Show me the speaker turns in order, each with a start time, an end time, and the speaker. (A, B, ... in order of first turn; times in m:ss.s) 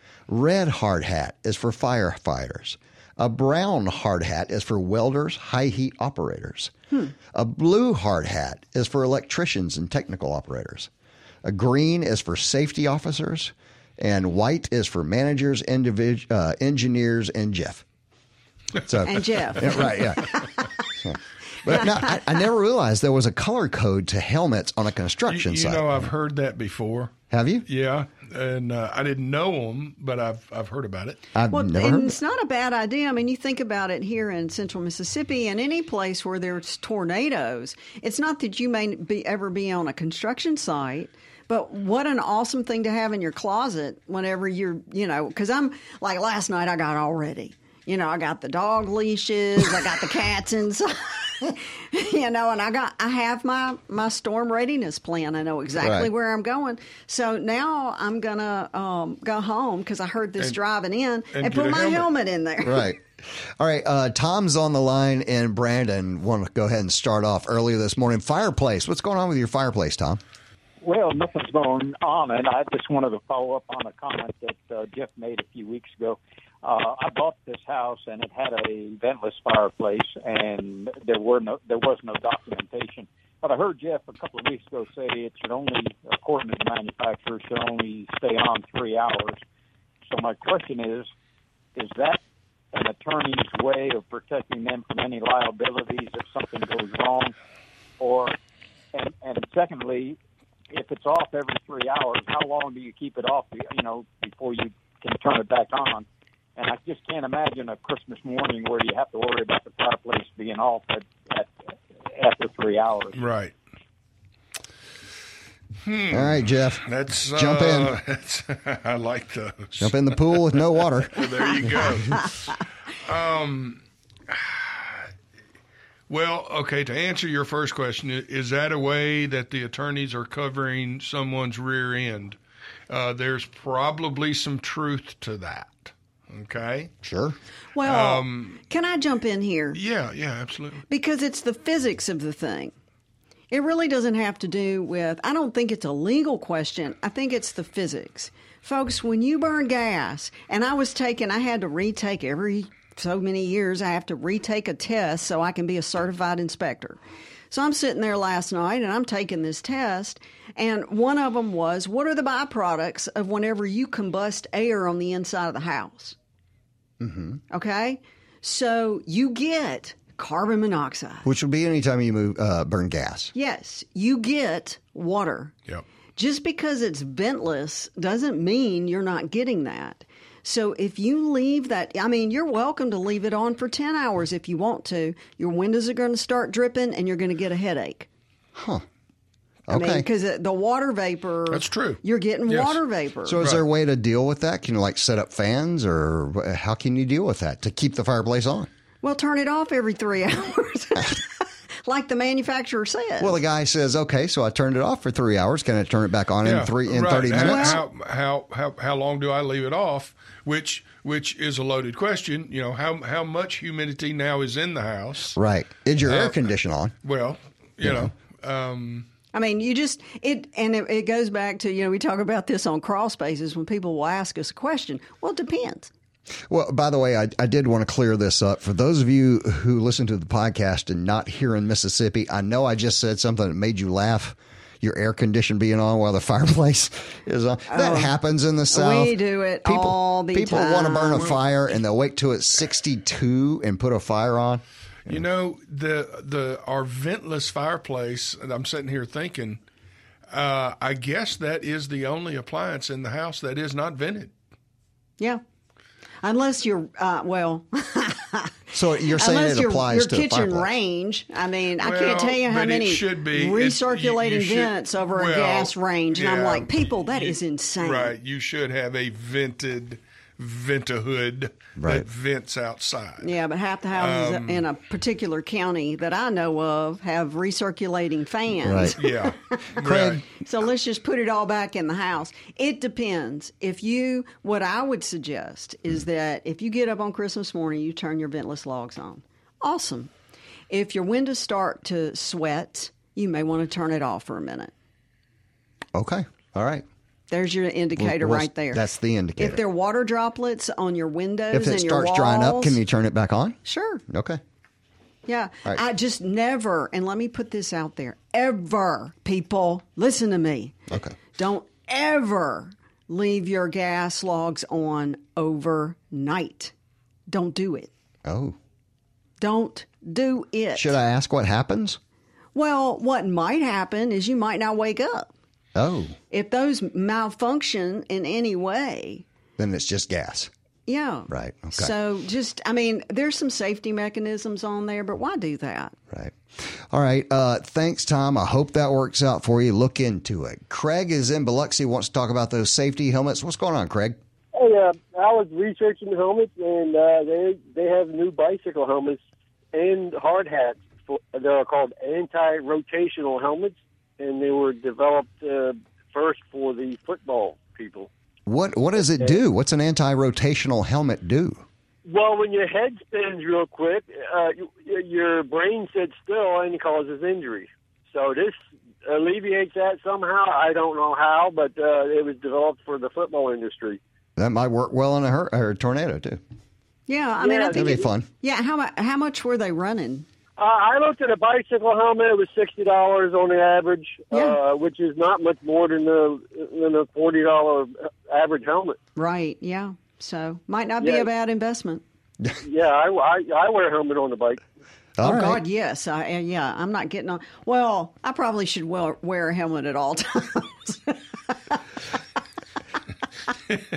0:00.3-0:06.7 A
0:07.3-0:10.9 A
0:11.4-0:17.8 A
0:18.8-0:20.5 A
0:19.0-0:20.6 B
0:21.0-0:26.1 A
0:21.7-0:22.3 B
0:25.3-0:27.1 C
0:27.3-0:27.6 A
0:27.7-0:31.2 C
0:31.3-0:32.1 A
0:31.5-1:02.9 B
0:55.8-0:56.1 A
1:01.3-1:02.1 C
1:02.6-1:10.2 A
1:10.8-1:29.4 D
1:30.0-1:31.1 D
1:31.8-1:32.2 D
1:32.7-1:37.3 D
1:38.0-1:38.4 D
1:38.9-1:40.2 D
1:40.7-1:46.0 D
1:46.6-1:51.5 D
1:52.1-1:53.2 D
1:53.1-1:53.5 C
1:55.8-2:05.1 C
1:56.1-1:57.9 A
1:59.8-2:01.9 A
2:06.1-2:12.4 C
2:12.9-2:16.9 C
2:17.0-2:17.4 A
2:17.8-2:19.8 B
2:17.8-2:18.6 C
2:19.7-2:20.8 C
2:20.9-2:22.7 B
2:23.5-2:37.0 B
2:37.5-2:46.2 B
2:47.0-2:47.4 A
2:47.5-2:51.2 B
2:51.2-2:53.3 A
2:53.3-2:55.5 B
2:56.2-3:08.1 B
3:08.5-3:08.8 A
3:09.7-3:10.0 A
3:09.7-3:13.4 B
3:11.5-3:12.8 C
3:13.2-3:18.7 A
3:19.0-3:23.4 B
3:23.2-3:27.8 A
3:26.4-3:35.4 C
3:27.4-3:27.8 B
3:35.4-3:36.9 A
3:36.0-3:36.4 C
3:37.0-3:39.1 C
3:37.8-3:38.1 A
3:39.3-3:45.9 B
3:46.5-4:05.2 A
3:57.7-3:58.1 B
3:58.7-4:01.3 B
4:01.1-4:01.6 C
4:05.0-4:09.6 C
4:10.3-4:14.3 C
4:16.2-4:18.6 B
4:18.7-4:20.7 A
4:19.2-4:28.1 B
4:21.8-4:33.3 C
4:31.8-4:32.0 A
4:33.2-4:39.6 B
4:33.9-4:34.6 C
4:38.6-4:39.0 A
4:39.0-4:40.2 C
4:39.8-4:40.2 A
4:40.4-4:50.1 B
4:50.7-4:54.7 B
4:55.9-4:56.8 A
4:57.3-4:58.8 B
4:58.0-4:59.6 A
4:59.4-5:02.8 B
5:01.5-5:04.4 A
5:03.6-5:04.0 B
5:05.2-5:10.8 B
5:10.9-5:11.1 A
5:11.3-5:16.7 B
5:17.3-5:17.9 B
5:18.2-5:18.6 A
5:19.4-5:20.9 B
5:20.7-5:22.0 A
5:22.5-5:25.3 B
5:25.7-5:26.2 A
5:26.3-5:29.2 B
5:29.6-5:30.5 A
5:30.9-5:35.9 B
5:31.3-5:31.9 A
5:36.1-5:44.2 A
5:44.5-5:49.2 E
5:49.7-5:58.1 E
5:58.5-6:01.6 A
6:02.0-6:14.0 E
6:14.4-6:16.4 A
6:17.1-6:20.2 B
6:17.4-6:18.0 E
6:17.7-6:18.3 A
6:20.6-6:29.0 E
6:24.3-6:24.6 B
6:29.2-6:32.0 B
6:31.0-6:31.3 E
6:32.6-6:34.6 E
6:35.2-6:35.6 A
6:35.2-6:41.8 B